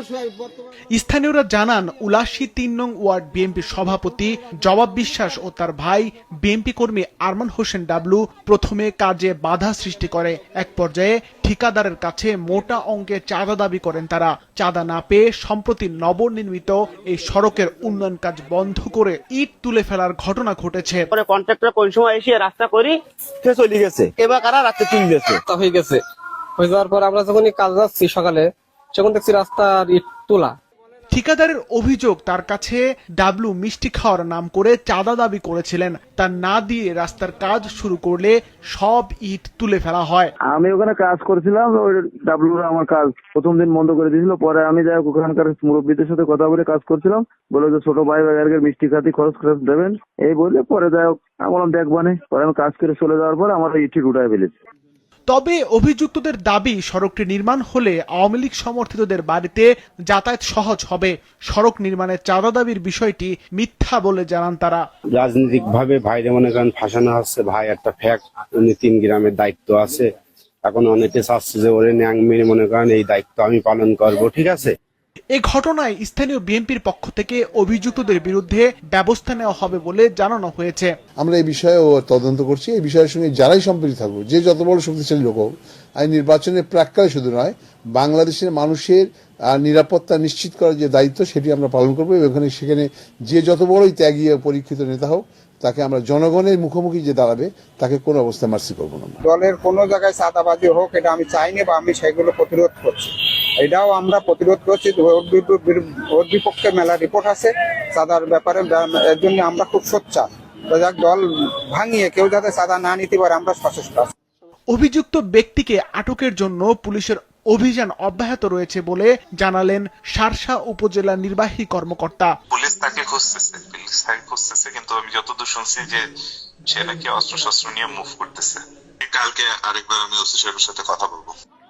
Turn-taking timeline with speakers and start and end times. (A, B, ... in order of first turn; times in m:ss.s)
0:00.9-0:21.0 A
0:21.1-0:25.4 B
0:25.5-0:26.0 C
0:26.6-0:30.6 C
0:31.1-0:40.3 A
0:40.5-0:54.6 D
0:55.3-1:04.8 A
1:05.2-1:10.1 E
1:10.6-1:14.7 E
1:15.4-1:20.9 A
1:21.2-1:39.2 F
1:39.3-1:54.1 G
1:54.7-2:02.3 A
2:02.5-2:06.0 H
2:06.7-2:11.3 H